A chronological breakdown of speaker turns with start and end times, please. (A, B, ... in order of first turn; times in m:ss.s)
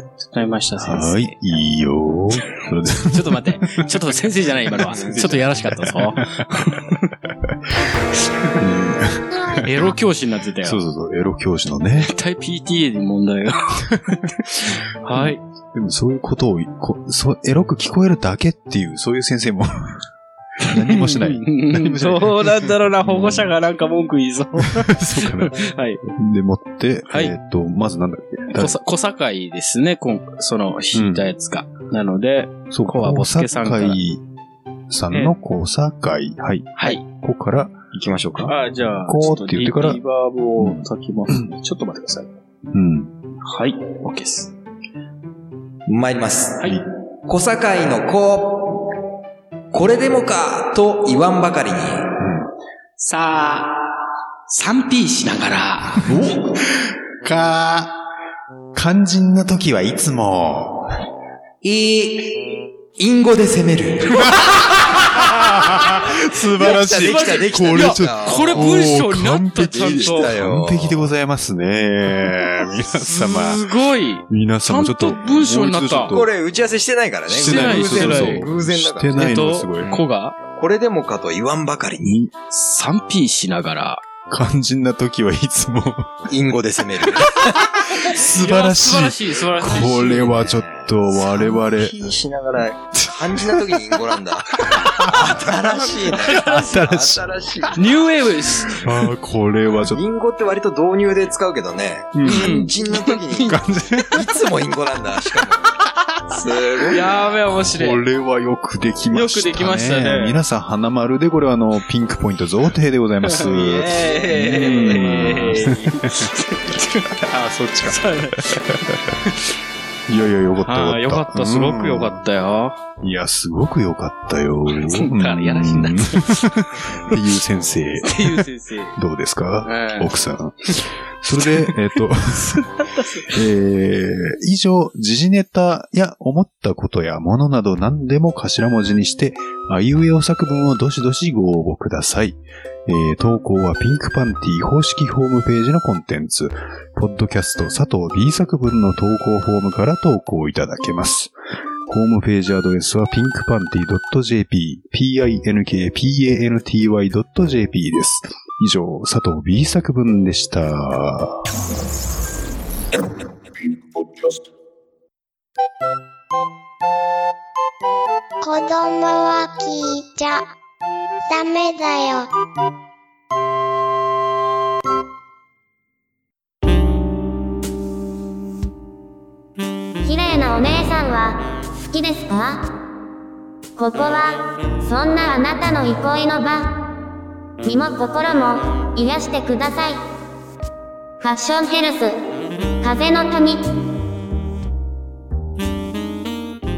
0:00.2-0:01.6 A
0:00.8-0:03.9 B
0:02.6-0:07.1 A
0:04.7-0:06.7 B
0:04.8-0:05.4 C
0:08.6-0:10.0 B
0:09.6-0:10.8 A
0:10.6-0:12.1 B
0:12.0-0:15.4 A
0:15.1-0:20.0 B
0:20.6-0:23.5 B
0:20.6-0:26.0 A
0:24.6-0:25.6 B
0:26.1-0:28.8 B
0:28.6-0:34.0 A
0:30.9-0:31.2 B
0:32.7-0:34.2 B
0:34.9-0:37.8 B
0:36.8-0:37.0 A
0:37.9-0:38.5 C
0:38.4-0:42.4 A
0:39.0-0:40.0 B
0:40.6-0:40.8 B
0:42.7-0:43.1 B
0:43.4-0:44.6 A
0:45.9-0:46.6 C
0:47.3-0:48.9 C
0:49.7-0:52.2 C
0:52.2-0:52.5 B
0:53.0-0:53.8 A
0:54.5-0:56.2 A
0:56.1-0:58.0 B
0:58.7-1:00.9 B
1:01.6-1:04.4 C
1:04.1-1:13.6 B
1:06.6-1:09.0 C
1:06.6-1:10.3 A
1:09.6-1:11.1 C
1:13.0-1:16.1 A
1:14.3-1:16.3 B
1:16.1-1:19.2 C
1:17.3-1:20.0 B
1:17.3-1:18.5 A
1:19.1-1:20.4 A
1:19.9-1:22.2 C
1:22.0-1:22.3 B
1:22.5-1:24.0 A
1:24.3-1:26.3 B
1:26.3-1:27.5 C
1:27.3-1:32.0 B
1:27.9-1:30.6 A
1:30.4-1:38.0 C
1:33.0-1:33.8 B
1:34.6-1:37.3 B
1:36.3-1:36.7 A
1:37.8-1:38.9 A
1:38.8-1:40.0 B
1:39.8-1:45.8 C
1:42.1-1:42.7 B
1:42.2-1:43.6 A
1:43.5-1:44.2 B
1:46.3-1:47.1 C
1:46.8-1:48.0 A
1:47.6-1:56.3 B
1:49.1-1:50.4 A
1:53.2-1:57.3 A
1:53.9-1:55.3 C
1:57.1-1:59.2 B
1:57.8-1:59.4 A
2:00.1-2:02.2 B
2:00.6-2:02.8 A
2:03.0-2:12.6 B
2:04.7-2:07.2 A
2:08.0-2:09.0 A
2:09.6-2:10.1 A
2:11.5-2:11.8 A
2:12.3-2:13.4 A
2:13.3-2:31.4 B
2:31.9-2:41.4 B
2:48.6-2:50.3 D
2:51.4-2:52.2 D
3:00.0-3:02.7 E
3:03.8-3:06.8 E
3:07.6-3:10.0 E
3:11.2-3:12.2 E
3:12.8-3:13.6 E